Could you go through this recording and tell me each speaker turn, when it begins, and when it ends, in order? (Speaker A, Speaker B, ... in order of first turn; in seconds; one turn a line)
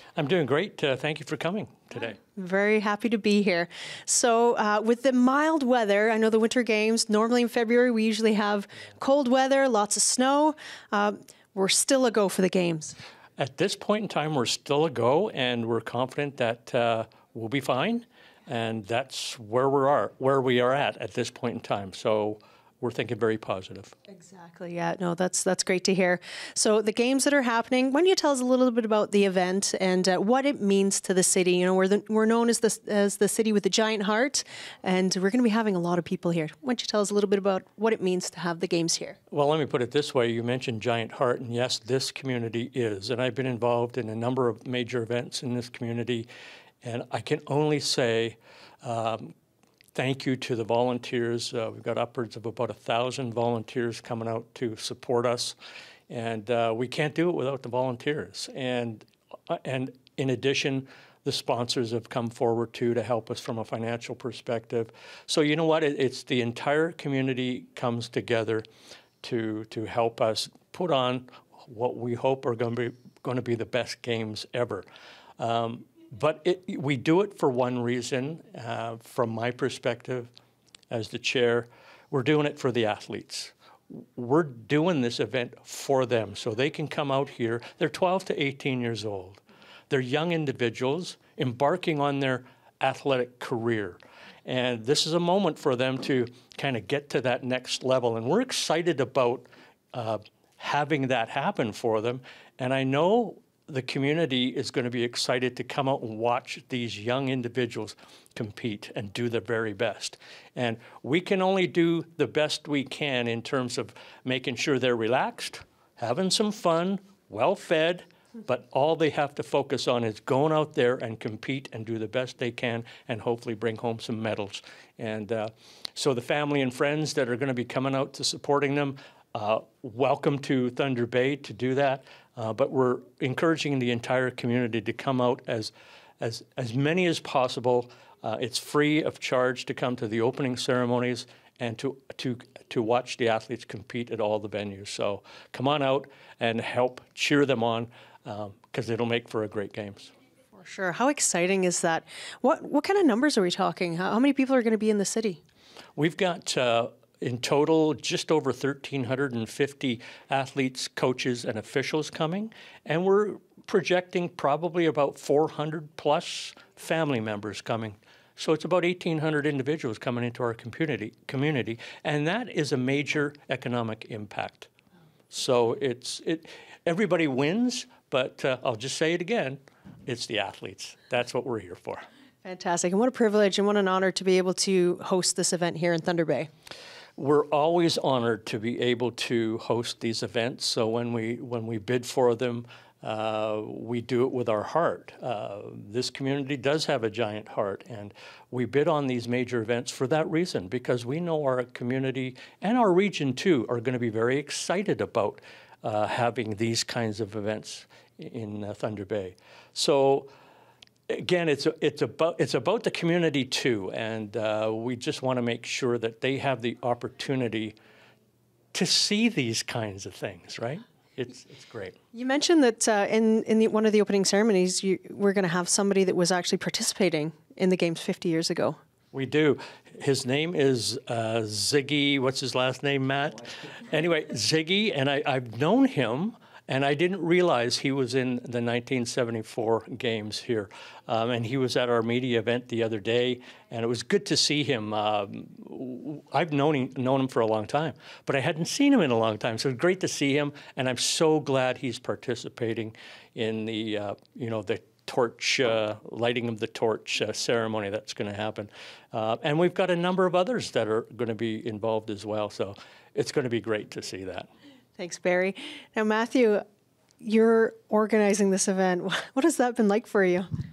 Speaker A: 0.1-2.2
Speaker B: 2.3-12.9
Speaker A: 13.4-23.9
Speaker B: 24.1-39.2
Speaker A: 39.3-46.3
Speaker A: 46.8-49.3
Speaker A: 49.9-55.5
Speaker A: 56.1-68.6
Speaker A: 69.2-74.8
Speaker A: 75.4-80.3
Speaker A: 80.9-150.1
Speaker B: 150.5-155.4
Speaker A: 155.9-174.7
Speaker A: 175.3-182.0
Speaker B: 182.4-186.5
Speaker A: 187.2-210.3
Speaker A: 211.1-217.8
Speaker A: 218.7-221.9
Speaker B: 222.1-228.8
Speaker A: 229.1-264.5
Speaker B: 265.0-266.6
Speaker B: 267.2-270.5